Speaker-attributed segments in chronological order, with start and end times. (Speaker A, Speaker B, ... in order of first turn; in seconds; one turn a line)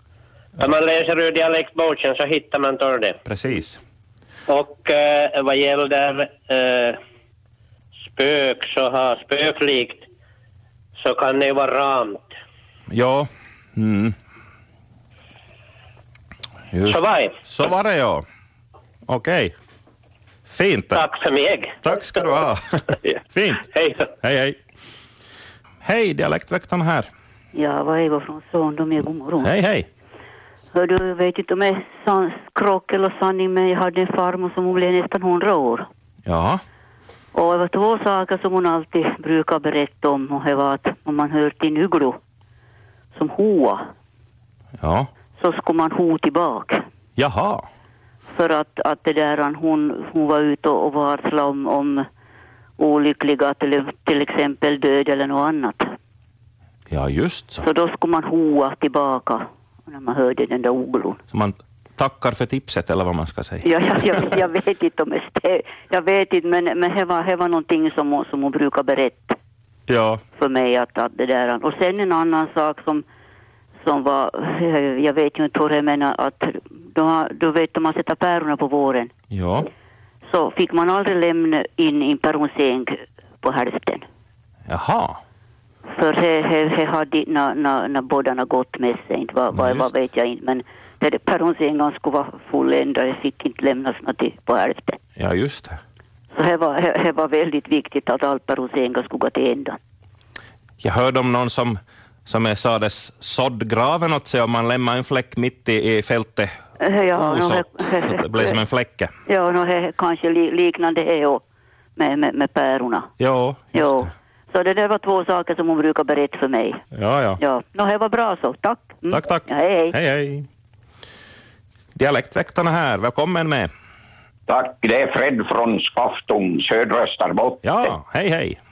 Speaker A: 0.6-3.2
Speaker B: 3.2-3.8
Speaker A: 4.5-7.0
Speaker A: 8.1-10.1
Speaker A: 11.0-12.3
Speaker B: 12.9-14.1
Speaker B: 16.7-18.2
Speaker A: 16.8-17.4
Speaker B: 19.1-19.5
Speaker B: 20.5-21.0
Speaker A: 20.9-21.8
Speaker B: 21.8-23.6
Speaker A: 23.7-24.1
Speaker B: 24.2-24.6
Speaker B: 25.8-27.1
Speaker C: 27.5-29.5
Speaker B: 29.4-29.9
Speaker C: 30.7-35.9
Speaker B: 36.2-36.6
Speaker C: 37.3-42.2
Speaker C: 43.1-43.9
Speaker B: 44.8-45.1
Speaker C: 45.4-46.8
Speaker B: 47.2-47.6
Speaker C: 48.3-52.0
Speaker C: 52.8-55.9
Speaker B: 56.9-57.6
Speaker C: 57.6-61.2
Speaker B: 61.3-64.3
Speaker C: 63.6-69.4
Speaker B: 69.9-70.2
Speaker C: 70.3-73.0
Speaker C: 73.8-79.1
Speaker B: 79.3-79.7
Speaker C: 80.2-84.0
Speaker B: 84.7-85.2
Speaker C: 85.9-95.0
Speaker B: 89.5-89.9
Speaker B: 95.2-95.8
Speaker C: 96.3-99.8
Speaker B: 100.8-106.5
Speaker C: 106.8-108.6
Speaker B: 107.1-109.1
Speaker C: 109.3-111.4
Speaker C: 112.0-113.1
Speaker B: 113.2-114.0
Speaker C: 113.7-116.8
Speaker B: 116.9-117.4
Speaker C: 117.4-119.9
Speaker B: 119.1-120.5
Speaker B: 122.0-123.7
Speaker D: 124.5-127.9
Speaker B: 127.6-128.6